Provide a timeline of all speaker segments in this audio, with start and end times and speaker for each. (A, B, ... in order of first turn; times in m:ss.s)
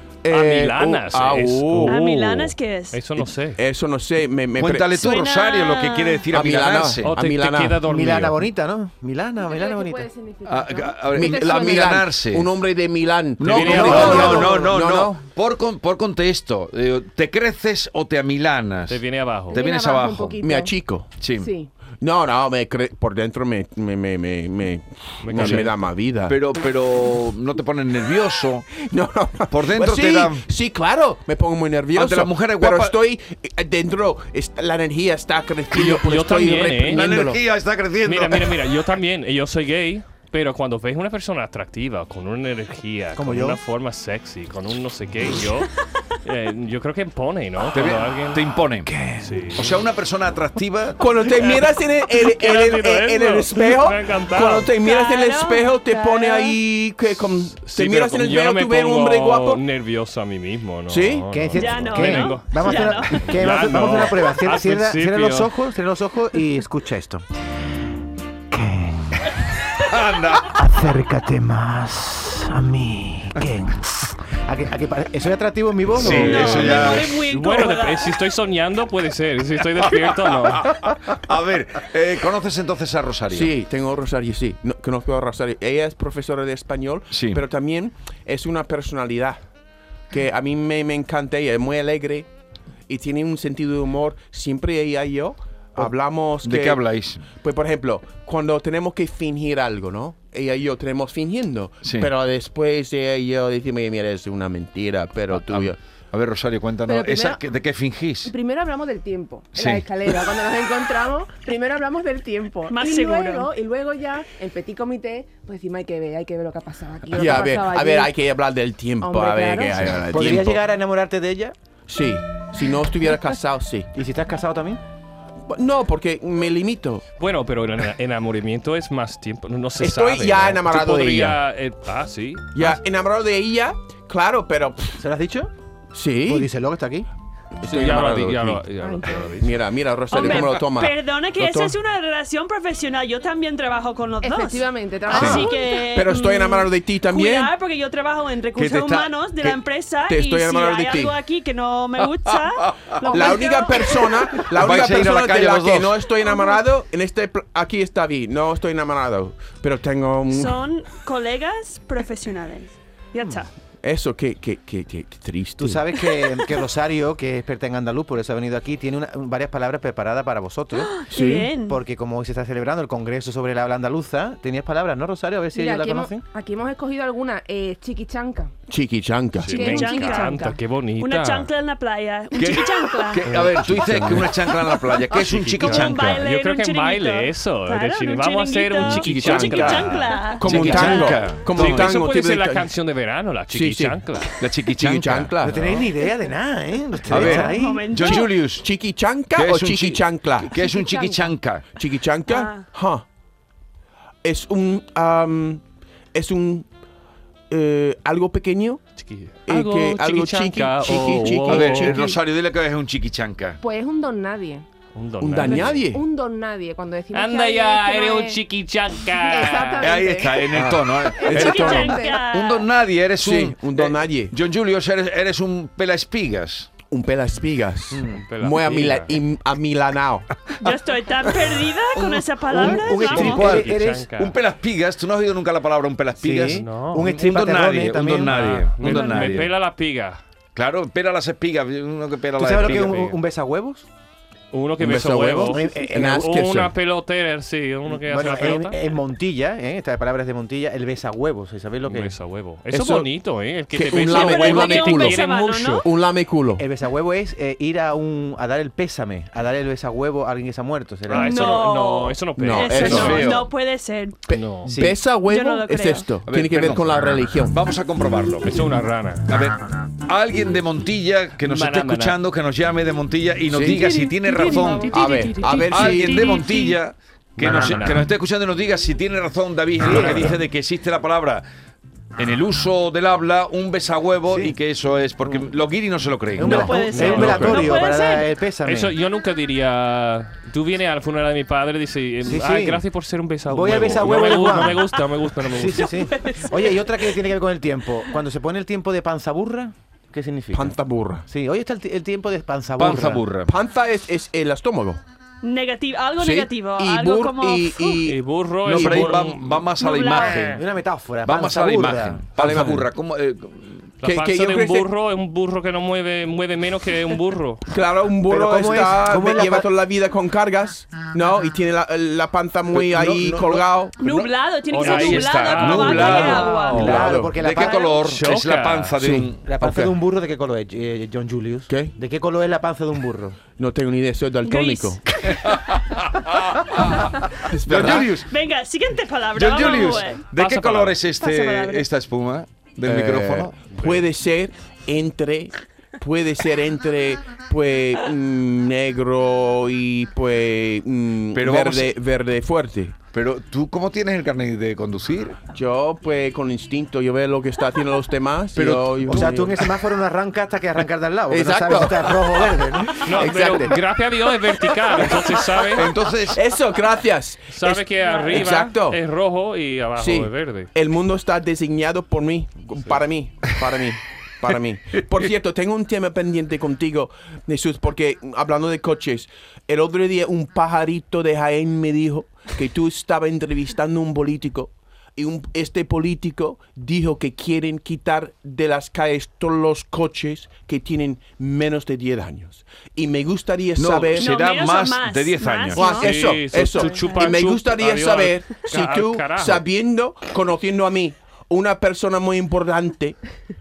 0:00.2-0:02.0 A
0:00.3-0:03.6 B
0:01.9-0:03.0 C
0:03.6-0:04.9 A
0:04.6-0:07.2 D
0:05.0-0:06.2 C
0:06.3-0:07.9 A
0:07.0-0:08.4 B
0:07.9-0:10.1 E
0:09.4-0:11.9 F
0:10.4-0:12.6 D
0:11.1-0:15.3 A
0:13.4-0:19.0 D
0:13.5-0:14.4 B
0:13.7-0:14.7 F
0:18.9-0:19.6 B
0:19.5-0:21.7 F
0:19.5-0:20.4 D
0:20.4-0:21.2 A
0:21.2-0:21.5 D
0:22.0-0:26.4 A
0:25.2-0:25.7 B
0:25.3-0:25.7 D
0:26.3-0:28.7 D
0:28.7-0:37.4 A
0:29.5-0:30.4 D
0:31.9-0:33.0 D
0:35.7-0:37.2 B
0:36.8-0:38.7 D
0:38.0-0:45.7 B
0:43.2-0:43.6 E
0:46.2-0:48.4 B
0:47.7-0:49.0 D
0:48.8-0:49.5 E
0:49.2-0:49.8 B
0:49.6-0:51.0 D
0:51.0-0:59.6 A
0:51.4-0:54.7 B
0:54.8-0:56.6 C
0:57.6-1:05.5 B
1:00.9-1:01.3 A
1:01.3-1:07.2 E
1:01.6-1:03.3 C
1:08.5-1:09.3 E
1:09.8-1:10.5 D
1:10.5-1:16.8 E
1:16.0-1:17.1 D
1:16.0-1:18.1 C
1:16.0-1:20.7 B
1:19.8-1:23.5 D
1:23.3-1:29.4 A
1:27.1-1:27.4 D
1:30.1-1:32.3 A
1:32.9-1:45.8 A
1:36.4-1:37.3 D
1:41.8-1:42.1 D
1:45.3-1:48.3 D
1:46.8-1:47.4 F
1:48.2-1:58.2 F
1:49.6-1:49.9 D
1:52.7-1:53.5 C
1:57.1-2:00.6 A
1:59.0-2:00.0 F
2:00.1-2:01.6 E
2:01.9-2:03.9 A
2:03.9-2:04.8 E
2:05.5-2:07.0 A
2:07.2-2:12.8 B
2:09.8-2:11.4 A
2:12.6-2:15.0 A
2:15.0-2:15.5 E
2:15.9-2:16.5 A
2:16.3-2:17.1 E
2:17.6-2:18.6 A
2:17.7-2:19.6 B
2:18.8-2:19.2 F
2:19.4-2:21.8 A
2:20.1-2:34.4 C
2:24.2-2:25.6 F
2:25.1-2:27.5 A
2:28.6-2:29.1 D
2:30.1-2:31.2 A
2:32.3-2:33.1 D
2:33.0-2:33.7 F
2:33.1-2:40.6 A
2:34.4-2:36.1 D
2:40.3-2:43.5 C
2:43.8-2:45.9 A
2:45.6-2:51.0 E
2:50.9-2:51.8 C
2:51.1-2:51.5 A
2:51.7-2:56.2 E
2:55.5-2:58.5 F
2:58.7-2:59.6 A
2:59.4-3:01.5 B
2:59.5-3:00.5 F
2:59.6-3:03.2 C
3:02.3-3:06.2 D
3:03.2-3:04.4 B
3:03.7-3:04.4 A
3:05.0-3:11.2 C
3:05.1-3:14.3 B
3:08.8-3:12.7 A
3:09.2-3:09.7 D
3:10.4-3:12.0 D
3:13.5-3:14.0 A
3:14.4-3:15.3 D
3:14.7-3:15.8 A
3:15.4-3:17.9 E
3:17.1-3:18.7 D
3:17.1-3:17.4 A
3:17.3-3:18.3 C
3:18.0-3:20.5 A
3:19.3-3:21.7 D
3:20.5-3:21.3 F
3:21.8-3:23.0 A
3:22.3-3:22.6 C
3:24.2-3:25.6 A
3:26.1-3:26.6 A
3:27.5-3:28.8 A
3:29.0-3:32.1 B
3:29.5-3:32.2 A
3:31.5-3:33.6 D
3:33.6-3:34.7 F
3:35.0-3:35.9 B
3:35.2-3:36.0 A
3:35.4-3:38.4 F
3:37.1-3:40.0 B
3:39.1-3:42.2 F
3:39.8-3:46.8 D
3:40.5-3:42.0 A
3:41.2-3:42.7 C
3:43.2-3:44.4 A
3:46.8-3:50.3 A
3:48.0-3:49.2 B
3:50.6-3:53.6 C
3:52.0-3:59.5 D
3:52.5-3:54.1 E
3:52.7-3:54.4 B
3:56.2-3:58.3 E
3:56.6-3:57.1 B
3:58.3-4:00.2 B
3:58.8-3:59.4 C
4:00.6-4:03.0 D
4:02.4-4:03.9 E
4:02.7-4:03.2 B
4:04.5-4:08.8 B
4:04.8-4:06.7 A
4:05.5-4:06.3 E
4:07.9-4:12.1 E
4:11.9-4:15.9 B
4:12.7-4:13.1 A
4:13.7-4:15.3 A
4:14.1-4:15.9 C
4:15.8-4:16.6 A
4:16.6-4:21.5 E
4:21.1-4:23.2 B
4:21.1-4:24.2 C
4:22.4-4:23.3 A
4:22.8-4:23.5 D
4:24.3-4:27.6 A
4:24.3-4:24.7 B
4:24.6-4:25.0 E
4:25.3-4:26.1 C
4:26.3-4:28.5 D
4:28.4-4:29.3 B
4:29.3-4:35.1 D
4:31.4-4:32.2 B
4:33.5-4:34.1 A
4:34.0-4:36.8 C
4:34.8-4:36.4 A
4:35.6-4:41.5 D
4:37.4-4:38.1 B
4:39.8-4:40.4 E
4:40.0-4:40.3 A
4:42.2-4:47.3 D
4:44.3-4:44.6 E
4:46.4-4:49.0 E
4:46.4-4:48.3 C
4:46.4-4:47.7 B
4:48.6-4:56.1 B
4:52.2-4:52.8 E
4:53.5-4:54.9 E
4:55.4-5:03.2 E
4:56.3-4:56.5 C
5:00.5-5:01.2 A
5:02.8-5:03.5 D
5:03.5-5:05.0 A
5:05.4-5:08.1 C
5:06.2-5:09.4 A
5:08.0-5:09.6 B
5:08.6-5:10.6 D
5:09.8-5:10.4 C
5:10.2-5:12.3 E
5:11.2-5:13.7 D
5:12.4-5:12.9 A
5:14.0-5:14.9 A
5:14.0-5:17.6 B
5:17.7-5:24.3 A
5:18.3-5:19.7 E
5:22.8-5:23.6 E
5:24.0-5:28.0 C
5:24.7-5:26.8 B
5:24.8-5:26.7 D
5:26.7-5:28.0 E
5:26.7-5:27.3 A
5:27.3-5:29.8 D
5:28.0-5:28.9 B
5:29.0-5:29.3 A
5:29.5-5:33.4 E
5:31.7-5:31.9 A
5:33.6-5:35.0 A
5:34.4-5:35.4 C
5:35.2-5:38.3 D
5:37.5-5:38.2 A
5:38.3-5:40.2 C
5:39.3-5:44.0 D
5:40.4-5:41.0 B
5:41.2-5:41.9 C
5:42.8-5:53.0 A
5:51.3-5:51.9 D
5:53.1-5:55.4 D
5:55.5-5:59.6 A
5:58.6-5:59.4 D
5:59.1-6:03.2 E
6:01.3-6:02.3 A
6:03.0-6:03.8 A
6:03.0-6:05.9 B
6:05.7-6:06.4 D
6:06.3-6:09.0 A
6:07.5-6:10.7 B
6:10.0-6:34.3 A
6:33.8-6:36.0 D
6:34.1-6:36.1 C
6:35.8-6:43.2 A
6:36.0-6:39.6 B